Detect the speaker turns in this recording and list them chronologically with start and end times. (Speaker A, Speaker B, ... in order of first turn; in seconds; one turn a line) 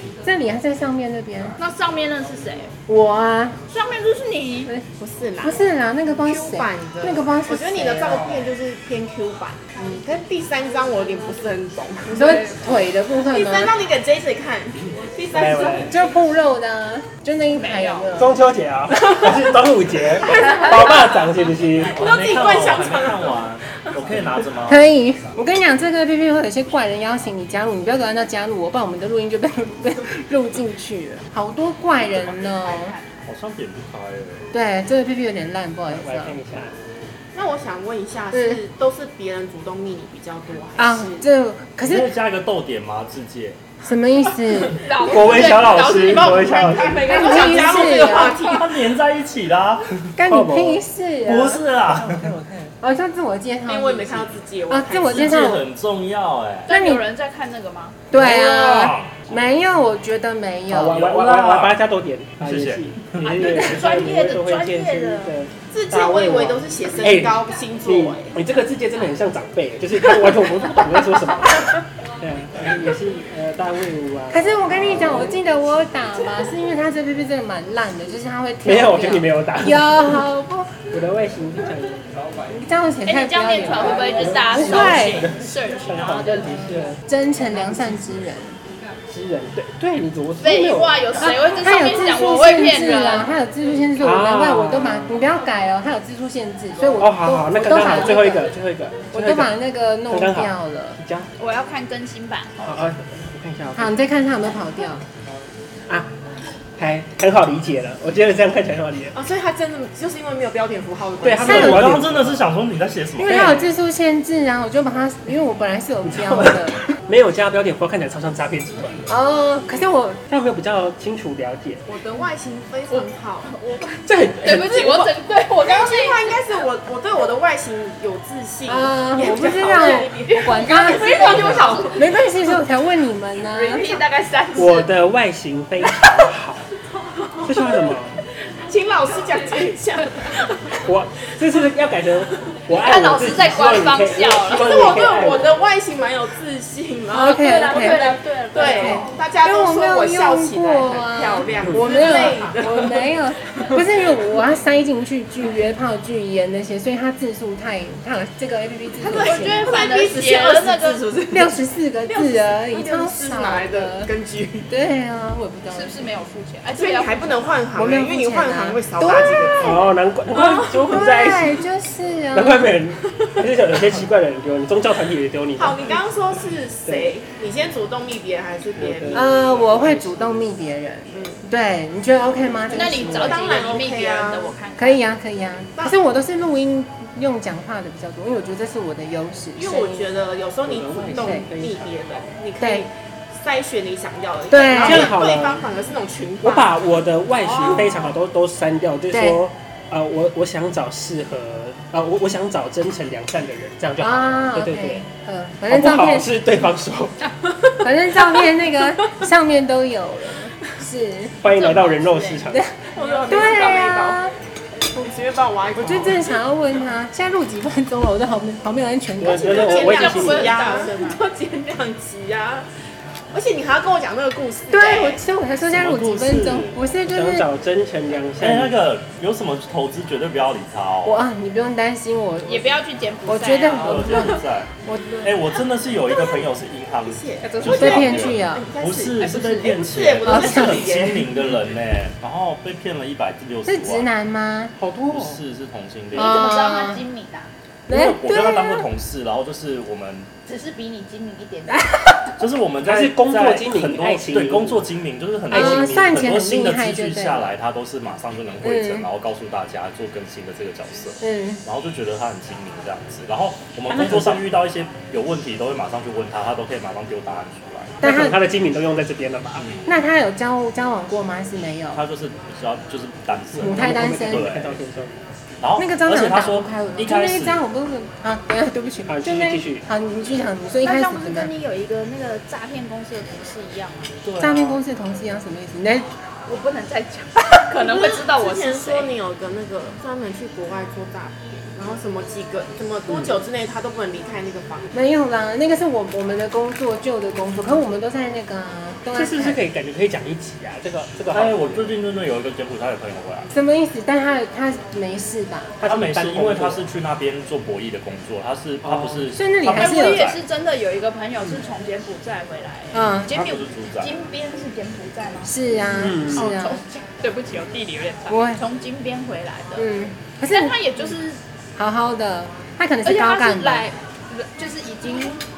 Speaker A: 0.2-1.6
Speaker B: 1.6-2.7
Speaker A: 2.9-3.6
Speaker B: 3.7-4.7
Speaker C: 5.0-12.6
Speaker A: 5.4-8.4
Speaker A: 12.1-13.7
Speaker C: 13.3-16.0
Speaker D: 15.3-15.9
Speaker A: 15.7-18.4
Speaker B: 17.5-18.2
Speaker D: 18.1-21.9
Speaker B: 20.2-21.1
Speaker E: 21.8-24.8
Speaker C: 21.8-23.4
Speaker A: 24.7-32.9
Speaker B: 32.0-33.3
Speaker E: 33.3-34.5
Speaker A: 34.5-36.4
Speaker D: 35.9-36.7
Speaker C: 37.3-41.2
Speaker A: 38.3-38.6
Speaker A: 40.8-42.1
Speaker E: 41.8-43.6
Speaker A: 43.8-44.8
Speaker B: 44.6-48.2
Speaker C: 44.9-48.9
Speaker D: 45.0-47.2
Speaker A: 47.0-48.4
Speaker E: 48.2-50.1
Speaker A: 50.1-51.6
Speaker D: 50.2-50.8
Speaker E: 51.2-52.3
Speaker D: 51.9-52.7
Speaker A: 52.8-55.7
Speaker C: 53.7-55.5
Speaker E: 55.1-56.7
Speaker A: 56.7-57.0
Speaker B: 56.7-58.0
Speaker A: 58.1-61.0
Speaker E: 58.1-59.3
Speaker D: 60.7-75.4
Speaker E: 60.9-61.8
Speaker E: 62.4-63.5
Speaker B: 63.2-65.3
Speaker C: 65.7-68.3
Speaker A: 74.3-80.8
Speaker D: 78.6-80.2
Speaker D: 80.9-82.0
Speaker A: 82.5-85.2
Speaker B: 83.0-86.9
Speaker D: 83.8-88.0
Speaker A: 87.0-88.6
Speaker D: 89.1-91.1
Speaker B: 90.4-93.3
Speaker A: 91.2-98.5
Speaker D: 94.0-95.1
Speaker D: 96.9-99.5
Speaker A: 99.1-101.0
Speaker D: 100.1-101.3
Speaker B: 101.4-102.8
Speaker D: 102.6-104.0
Speaker A: 103.7-105.0
Speaker D: 106.8-109.1
Speaker C: 109.1-112.1
Speaker D: 111.2-112.4
Speaker E: 111.4-113.7
Speaker A: 111.5-111.8
Speaker A: 113.2-116.8
Speaker D: 113.2-113.6
Speaker D: 116.0-119.1
Speaker A: 119.1-120.2
Speaker D: 120.3-121.8
Speaker C: 121.8-123.5
Speaker B: 122.9-126.4
Speaker D: 124.0-125.1
Speaker C: 125.6-132.1
Speaker A: 128.7-133.9
Speaker B: 129.7-132.2
Speaker D: 131.3-131.7
Speaker B: 133.5-134.9
Speaker D: 134.5-136.6
Speaker D: 137.4-138.2
Speaker C: 138.7-140.8
Speaker D: 140.8-145.6
Speaker B: 142.7-145.1
Speaker C: 144.4-153.8
Speaker A: 147.1-159.7
Speaker B: 147.2-149.1
Speaker D: 151.6-151.9
Speaker C: 159.0-164.7
Speaker B: 159.1-161.0
Speaker A: 161.3-164.1
Speaker A: 164.7-166.0
Speaker B: 165.7-167.6
Speaker C: 166.7-169.9
Speaker A: 167.7-169.8
Speaker D: 169.6-171.6
Speaker B: 170.3-170.9
Speaker A: 170.9-172.8
Speaker D: 172.3-176.0
Speaker C: 175.6-180.2
Speaker D: 176.8-177.1
Speaker D: 178.8-180.0
Speaker A: 179.1-183.5
Speaker C: 181.1-181.4
Speaker C: 182.7-184.5
Speaker B: 182.7-185.1
Speaker A: 184.8-190.1
Speaker C: 189.6-196.8
Speaker D: 190.6-192.2
Speaker A: 191.2-191.5
Speaker A: 192.6-192.8
Speaker A: 194.5-195.2
Speaker D: 194.7-195.7
Speaker D: 196.4-205.0
Speaker B: 197.4-198.1
Speaker A: 199.1-199.4
Speaker A: 204.0-206.3
Speaker D: 205.7-207.8
Speaker A: 207.8-211.4
Speaker D: 211.4-212.7
Speaker B: 211.4-213.8
Speaker C: 212.9-214.3
Speaker A: 213.3-214.3
Speaker C: 214.8-216.4
Speaker A: 215.8-220.0
Speaker D: 219.2-220.7
Speaker C: 219.2-222.7
Speaker B: 219.6-221.2
Speaker C: 223.3-225.2
Speaker A: 224.7-227.5
Speaker E: 225.7-226.8
Speaker D: 227.1-228.8
Speaker E: 228.4-231.2
Speaker A: 231.0-234.4
Speaker B: 232.4-235.0
Speaker E: 233.8-234.7
Speaker C: 234.9-236.5
Speaker E: 235.2-244.1
Speaker C: 237.0-241.5
Speaker B: 237.4-238.1
Speaker A: 237.6-238.7
Speaker D: 239.2-239.8
Speaker A: 240.2-241.0
Speaker A: 243.7-244.7
Speaker D: 244.8-245.4
Speaker E: 245.1-246.4
Speaker A: 246.1-247.0
Speaker B: 246.1-247.5
Speaker E: 247.9-250.3
Speaker A: 247.9-248.9
Speaker B: 250.4-251.9
Speaker A: 251.7-252.3
Speaker E: 252.4-268.0
Speaker D: 252.8-254.8
Speaker D: 255.5-256.5
Speaker A: 255.5-257.5
Speaker A: 258.6-259.1
Speaker A: 261.2-261.6
Speaker D: 263.9-264.4
Speaker A: 268.0-268.4
Speaker D: 268.0-269.7
Speaker E: 269.6-269.9
Speaker A: 269.8-272.0
Speaker E: 271.9-274.8
Speaker D: 273.5-275.2
Speaker A: 273.6-274.5
Speaker E: 275.6-277.6
Speaker A: 275.8-281.5
Speaker D: 279.1-279.8
Speaker B: 280.8-284.1
Speaker E: 284.2-284.8
Speaker A: 284.4-286.1
Speaker B: 286.5-289.1
Speaker C: 287.7-294.9
Speaker A: 294.9-299.6
Speaker D: 299.1-301.9
Speaker E: 301.3-303.5
Speaker A: 303.5-305.7
Speaker D: 305.8-306.8
Speaker E: 305.8-310.4
Speaker D: 308.8-309.3
Speaker A: 309.3-310.3
Speaker B: 309.7-315.6
Speaker A: 312.9-313.4
Speaker E: 313.3-314.1
Speaker A: 315.4-316.8
Speaker D: 315.9-316.6
Speaker B: 316.3-319.9
Speaker A: 318.3-318.6
Speaker A: 319.8-320.8
Speaker B: 320.5-321.4
Speaker A: 321.8-323.9
Speaker B: 323.0-325.4